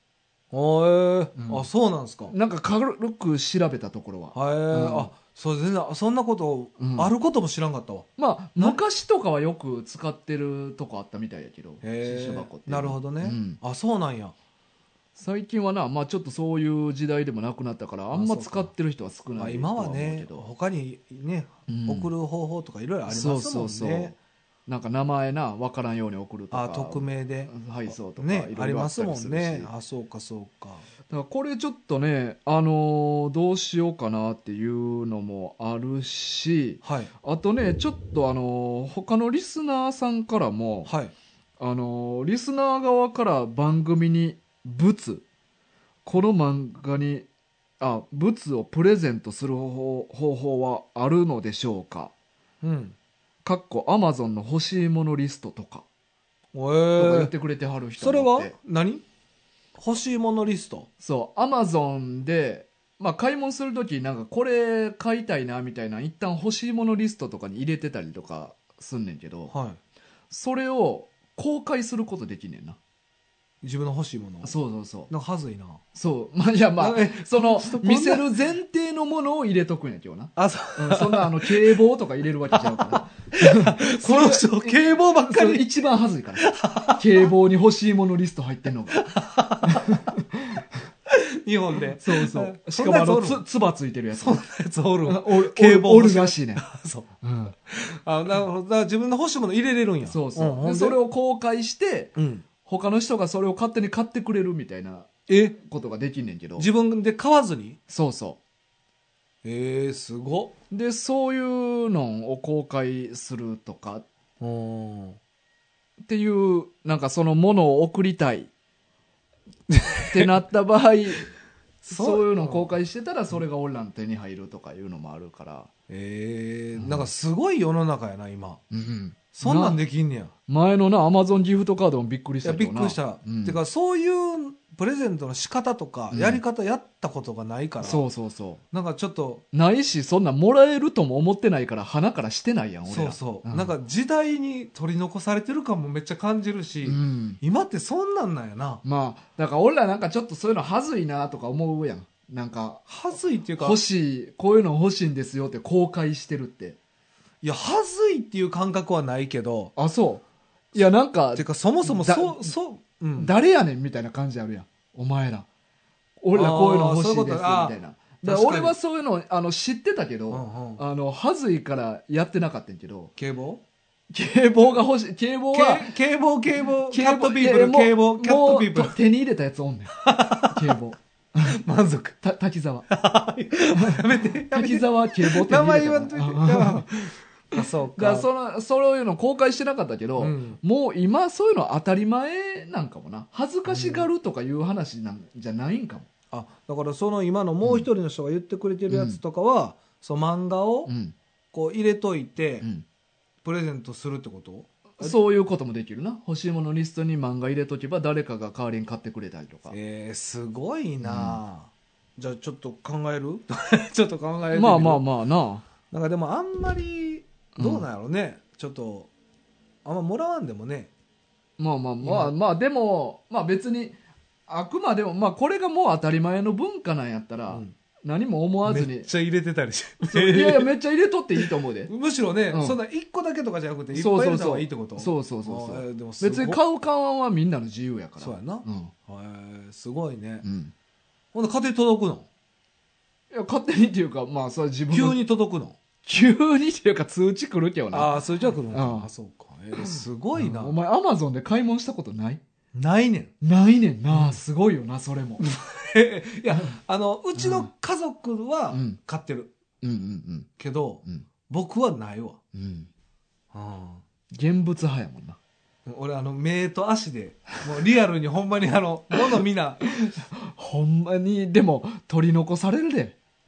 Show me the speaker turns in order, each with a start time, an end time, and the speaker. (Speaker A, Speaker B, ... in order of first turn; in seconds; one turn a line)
Speaker A: 0.5-2.3
Speaker B: 1.4-1.6
Speaker B: 2.3-5.1
Speaker A: 4.3-8.8
Speaker B: 6.8-7.1
Speaker B: 8.2-13.6
Speaker A: 11.8-14.3
Speaker B: 15.2-20.4
Speaker A: 18.1-18.7
Speaker A: 19.4-24.1
Speaker B: 21.7-22.1
Speaker B: 23.1-24.1
Speaker B: 24.7-29.7
Speaker A: 26.5-30.8
Speaker B: 31.1-40.9
Speaker A: 36.8-37.1
Speaker A: 40.9-41.1
Speaker B: 41.6-45.2
Speaker B: 46.0-47.3
Speaker B: 47.8-52.1
Speaker A: 52.6-53.0
Speaker B: 53.4-55.8
Speaker A: 56.5-57.3
Speaker B: 57.0-58.5
Speaker A: 58.0-59.0
Speaker A: 59.8-60.9
Speaker B: 61.0-69.5
Speaker A: 69.5-69.8
Speaker B: 70.3-72.8
Speaker A: 73.6-74.5
Speaker B: 74.4-75.1
Speaker A: 75.1-75.8
Speaker B: 75.9-89.0
Speaker A: 76.8-78.3
Speaker A: 80.3-81.8
Speaker A: 82.5-85.7
Speaker A: 86.4-87.3
Speaker A: 88.9-90.0
Speaker B: 89.6-90.7
Speaker A: 91.1-93.4
Speaker B: 92.0-94.4
Speaker A: 94.1-97.1
Speaker B: 95.0-96.6
Speaker B: 97.2-97.5
Speaker A: 97.7-101.0
Speaker B: 100.0-106.7
Speaker A: 102.2-102.4
Speaker A: 105.3-105.5
Speaker A: 106.6-107.8
Speaker B: 107.9-108.4
Speaker A: 109.4-110.5
Speaker B: 110.7-114.0
Speaker A: 114.4-115.2
Speaker B: 116.0-118.5
Speaker A: 119.7-120.4
Speaker B: 120.1-121.3
Speaker B: 121.8-125.7
Speaker A: 121.9-122.7
Speaker A: 125.9-128.6
Speaker B: 126.8-127.1
Speaker B: 128.7-129.8
Speaker A: 129.3-130.3
Speaker B: 130.5-133.6
Speaker A: 132.4-138.0
Speaker B: 136.1-136.4
Speaker B: 137.8-138.6
Speaker A: 138.7-139.4
Speaker B: 139.5-143.7
Speaker A: 142.9-148.8
Speaker B: 146.8-147.4
Speaker B: 148.8-152.9
Speaker A: 152.9-153.8
Speaker B: 153.6-156.8
Speaker A: 157.4-159.7
Speaker B: 159.8-160.2
Speaker B: 160.7-162.5
Speaker A: 161.3-163.3
Speaker B: 163.2-165.5
Speaker B: 166.2-173.1
Speaker A: 166.3-168.7
Speaker A: 170.3-170.8
Speaker A: 173.2-173.6
Speaker B: 174.1-175.9
Speaker A: 175.5-179.0
Speaker B: 176.9-181.5
Speaker A: 180.0-180.8
Speaker A: 181.4-182.2
Speaker B: 182.2-182.9
Speaker A: 182.9-188.3
Speaker B: 183.7-196.1
Speaker A: 190.2-190.6
Speaker A: 193.7-194.1
Speaker A: 196.3-200.9
Speaker B: 198.9-199.2
Speaker B: 200.8-201.1
Speaker A: 201.5-202.7
Speaker A: 203.4-205.1
Speaker B: 205.0-209.8
Speaker A: 209.7-215.0
Speaker B: 211.0-211.4
Speaker B: 214.5-215.6
Speaker A: 215.9-219.1
Speaker B: 217.6-217.8
Speaker A: 219.8-220.9
Speaker B: 221.6-223.9
Speaker A: 222.0-222.3
Speaker B: 224.5-229.1
Speaker A: 228.6-230.7
Speaker B: 230.1-231.9
Speaker A: 231.3-236.6
Speaker B: 232.5-232.8
Speaker B: 233.9-238.9
Speaker A: 238.2-240.4
Speaker B: 240.4-240.7
Speaker A: 241.3-242.3
Speaker B: 243.3-245.2
Speaker A: 244.9-245.8
Speaker B: 246.0-248.2
Speaker A: 247.9-250.8
Speaker B: 248.7-249.1
Speaker B: 249.8-252.4
Speaker A: 252.7-253.3
Speaker B: 253.4-255.4
Speaker A: 254.1-254.4
Speaker A: 255.4-259.5
Speaker B: 257.4-257.6
Speaker B: 258.7-259.0
Speaker B: 259.8-260.5
Speaker A: 260.6-262.4
Speaker B: 262.5-262.9
Speaker A: 263.5-264.0
Speaker B: 264.3-265.4
Speaker A: 265.9-269.8
Speaker B: 270.0-273.2